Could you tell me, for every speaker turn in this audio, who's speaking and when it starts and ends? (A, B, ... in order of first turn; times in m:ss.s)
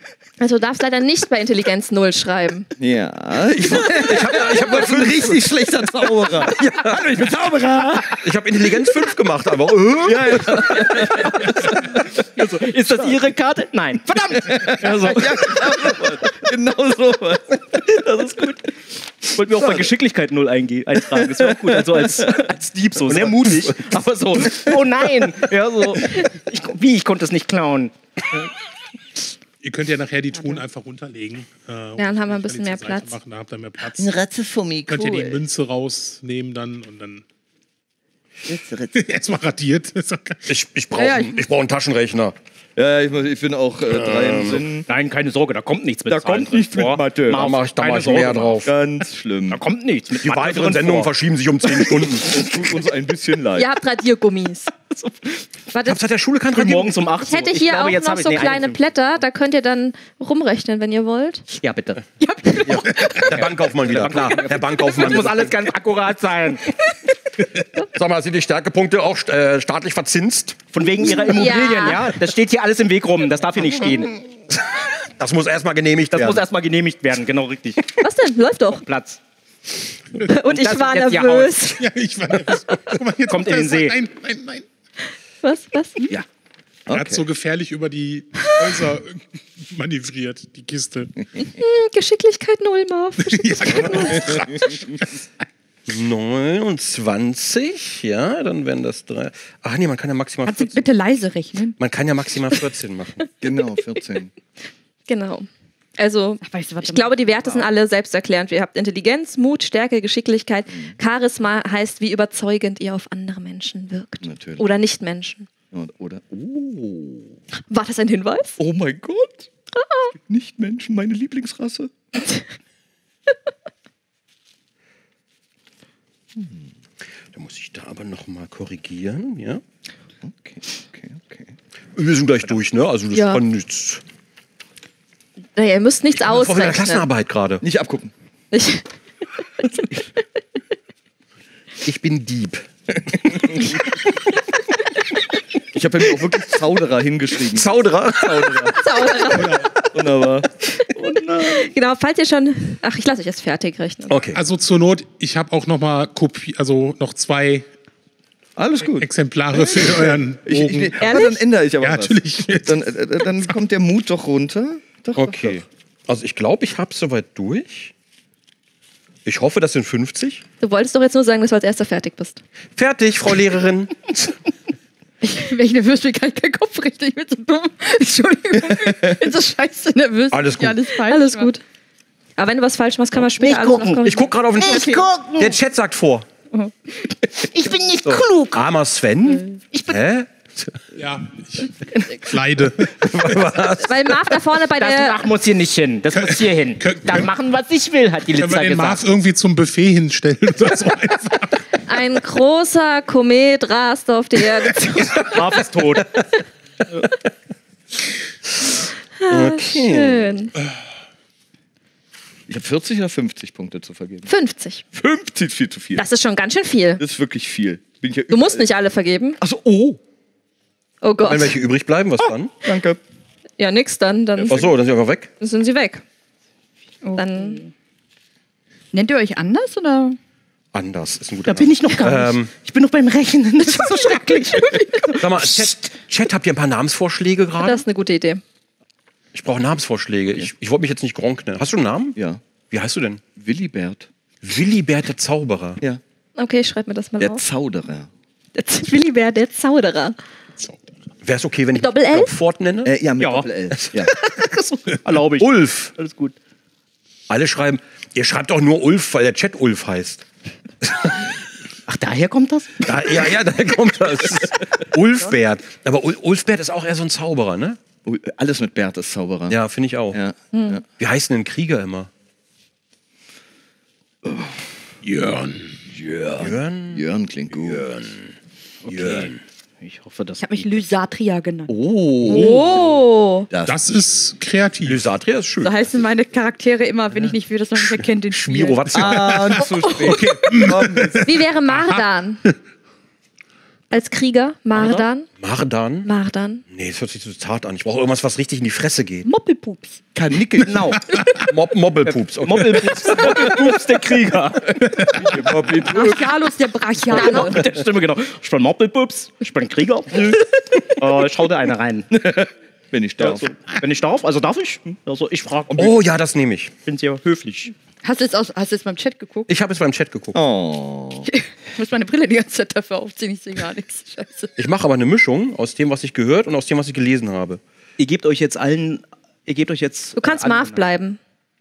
0:00.4-0:02.7 A
0:02.8-0:08.2 B
0:03.5-0:05.4 C
0:06.5-0:07.0 C
0:06.8-0:08.1 D
0:08.2-0:11.1 C
0:10.0-0:12.5 B
0:10.2-0:16.4 D
0:14.2-0:17.8 B
0:17.7-0:28.4 D
0:19.4-0:19.9 B
0:21.1-0:22.3 B
0:23.1-0:23.8 B
0:29.6-0:34.1 E
0:32.0-0:33.1 A
0:33.9-0:35.4 B
0:34.9-0:37.2 E
0:38.5-0:39.0 B
0:38.9-0:40.5 E
0:40.5-0:42.4 C
0:40.9-0:41.4 F
0:42.8-0:44.9 B
0:43.9-0:44.6 C
0:44.9-0:48.6 D
0:46.0-0:47.5 B
0:47.3-0:48.7 C
0:48.6-0:49.6 B
0:49.5-0:51.1 D
0:50.2-0:52.5 C
0:52.0-0:53.7 B
0:53.5-0:54.7 A
0:54.9-0:55.4 D
0:55.7-0:56.0 A
0:55.8-0:57.0 C
0:56.5-0:58.8 D
0:57.2-1:01.4 A
1:01.5-1:02.0 D
1:02.2-1:03.3 F
1:02.6-1:05.6 C
1:03.0-1:06.9 D
1:07.8-1:10.6 C
1:10.7-1:14.2 D
1:11.0-1:12.0 A
1:14.7-1:16.4 C
1:16.1-1:18.0 D
1:18.0-1:18.8 A
1:18.8-1:19.2 D
1:20.2-1:21.8 A
1:20.4-1:21.7 D
1:21.8-1:24.6 E
1:23.3-1:24.0 D
1:25.4-1:26.1 A
1:26.9-1:27.2 B
1:26.9-1:31.2 E
1:31.6-1:34.4 A
1:33.2-1:35.2 E
1:35.9-1:40.9 C
1:40.4-1:41.8 F
1:41.8-1:43.2 C
1:43.4-1:44.3 B
1:45.1-1:55.5 A
1:46.4-1:47.7 F
1:50.7-1:51.0 B
1:54.2-1:54.6 B
1:55.7-1:57.4 B
1:57.7-1:58.6 A
1:58.6-1:59.5 B
1:59.7-2:00.1 A
2:00.2-2:01.9 B
2:06.3-2:06.7 B
2:07.3-2:09.6 C
2:10.2-2:11.5 B
2:11.9-2:14.0 C
2:13.1-2:13.4 A
2:15.6-2:17.0 A
2:16.2-2:17.6 C
2:17.6-2:18.1 B
2:18.5-2:18.8 A
2:21.8-2:23.7 C
2:23.2-2:23.7 B
2:25.7-2:30.5 B
2:27.5-2:29.8 C
2:28.8-2:29.6 A
2:29.4-2:29.7 E
2:31.2-2:31.6 D
2:31.4-2:34.2 A
2:34.1-2:34.4 C
2:34.3-2:37.6 E
2:38.6-2:45.6 B
2:39.0-2:41.0 E
2:41.0-2:41.4 A
2:41.8-2:43.5 E
2:45.2-2:47.9 C
2:49.2-2:50.4 C
2:50.6-2:52.4 A
2:52.8-2:54.3 C
2:55.2-3:01.5 F
3:00.3-3:00.8 C
3:01.0-3:01.6 A
3:02.4-3:04.3 A
3:03.2-3:05.6 D
3:04.0-3:06.3 C
3:07.2-3:08.6 D
3:08.0-3:10.9 C
3:10.9-3:13.0 E
3:13.0-3:14.3 C
3:13.8-3:15.3 A
3:14.6-3:19.0 D
3:16.2-3:17.3 E
3:18.4-3:21.6 E
3:21.8-3:25.3 A
3:25.2-3:26.2 D
3:29.2-3:30.5 A
3:29.3-3:30.3 C
3:32.5-3:34.3 B
3:34.2-3:34.8 A
3:34.9-3:36.1 B
3:36.0-3:37.0 A
3:37.0-3:38.7 B
3:38.3-3:39.4 A
3:39.4-3:40.0 B
3:41.0-3:41.6 A
3:41.2-3:42.5 C
3:42.6-3:43.0 B
3:43.6-3:44.8 A
3:44.4-3:44.7 B
3:44.5-3:45.3 C
3:45.4-3:46.0 A
3:47.0-3:47.7 F
3:47.2-3:47.6 A
3:48.9-3:50.2 F
3:50.7-3:52.5 C
3:51.4-3:55.8 D
3:55.1-3:57.8 C
3:57.6-3:58.4 A
3:59.3-4:03.2 C
4:02.2-4:02.4 B
4:03.4-4:04.1 B
4:04.4-4:05.8 C
4:06.4-4:07.4 A
4:07.2-4:08.1 B
4:08.5-4:10.2 A
4:11.2-4:12.9 C
4:11.8-4:12.4 A
4:12.8-4:14.1 B
4:13.2-4:16.3 D
4:15.3-4:15.9 C
4:17.3-4:20.2 C
4:20.8-4:21.3 C
4:21.9-4:23.3 D
4:22.8-4:27.8 C
4:28.0-4:29.6 B
4:29.5-4:30.2 C
4:30.1-4:30.8 B
4:30.5-4:30.8 A
4:30.9-4:32.1 C
4:34.2-4:34.6 B
4:35.0-4:35.8 E
4:35.9-4:37.8 B
4:36.4-4:37.0 C
4:37.6-4:38.3 C
4:38.8-4:40.8 D
4:38.8-4:39.4 C
4:40.4-4:41.7 F
4:41.7-4:42.7 B
4:42.2-4:43.5 A
4:43.5-4:43.9 B
4:43.6-4:45.0 E
4:44.8-4:45.8 C
4:45.6-4:50.3 F
4:47.8-4:49.7 C
4:48.9-4:51.3 B
4:50.0-4:52.5 E
4:51.2-4:52.4 A
4:53.9-4:55.3 A
4:54.8-4:55.0 D
4:55.4-4:56.1 C
4:56.0-4:56.6 A
4:56.7-4:59.3 C
4:59.2-5:00.0 F
5:00.1-5:01.0 B
5:00.6-5:01.0 D
5:01.1-5:01.4 E
5:01.5-5:03.5 C
5:02.0-5:05.4 D
5:03.2-5:03.7 B
5:04.7-5:06.3 B
5:05.4-5:06.0 C
5:05.9-5:07.6 F
5:07.1-5:12.3 D
5:12.1-5:13.5 B
5:13.2-5:16.0 D
5:15.7-5:16.7 C
5:16.8-5:17.7 D
5:18.0-5:19.5 F
5:19.5-5:20.4 C
5:20.3-5:21.3 B
5:21.2-5:24.5 F
5:24.6-5:27.6 C
5:28.0-5:30.8 D
5:30.2-5:31.2 A